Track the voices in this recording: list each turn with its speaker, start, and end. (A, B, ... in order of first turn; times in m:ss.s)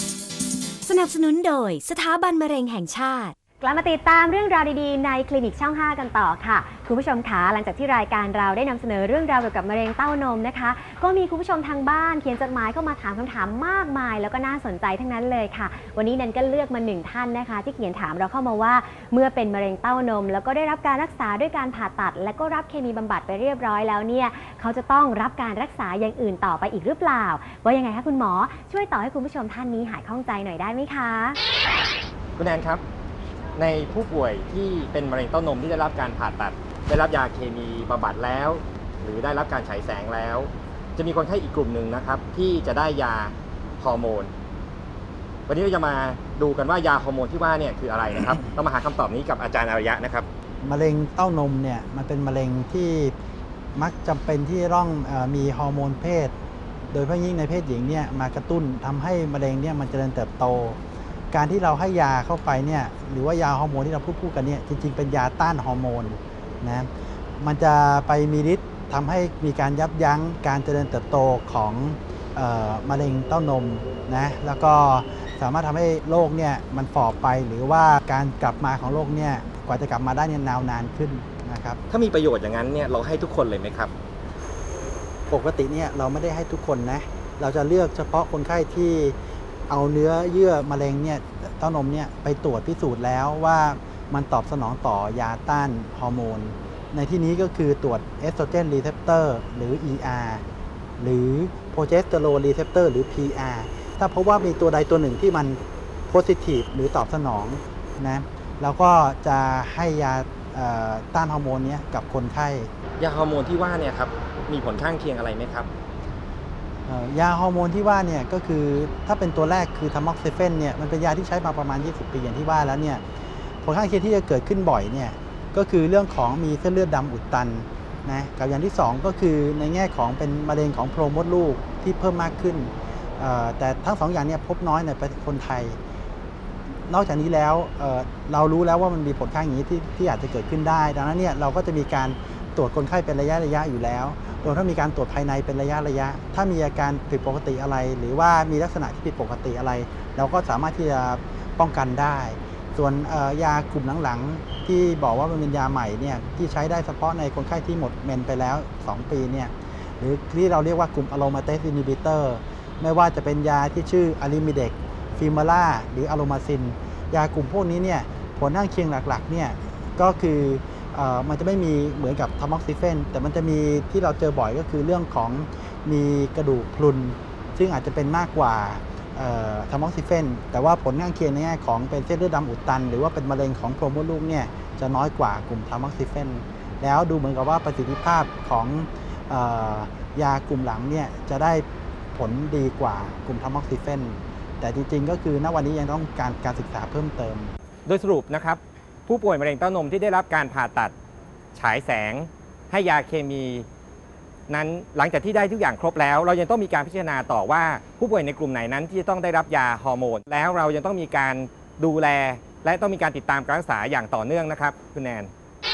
0:00.8-0:03.3 A
0:03.6-0:31.4 B
0:32.4-0:32.8 C
0:33.6-0:44.3 C
0:45.5-0:50.3 C
0:50.6-0:53.2 D
0:53.8-0:56.3 D
0:56.9-1:00.8 D
1:01.3-1:21.8 D
1:21.9-1:23.9 C
1:25.3-1:29.2 D
1:29.7-1:40.4 D
1:41.0-1:52.7 D
1:53.0-1:55.7 C
1:56.9-2:03.0 D
2:03.6-2:15.8 D
2:16.9-3:17.5 D
3:17.9-3:20.9 C
3:21.6-3:23.7 C
3:24.5-3:35.3 C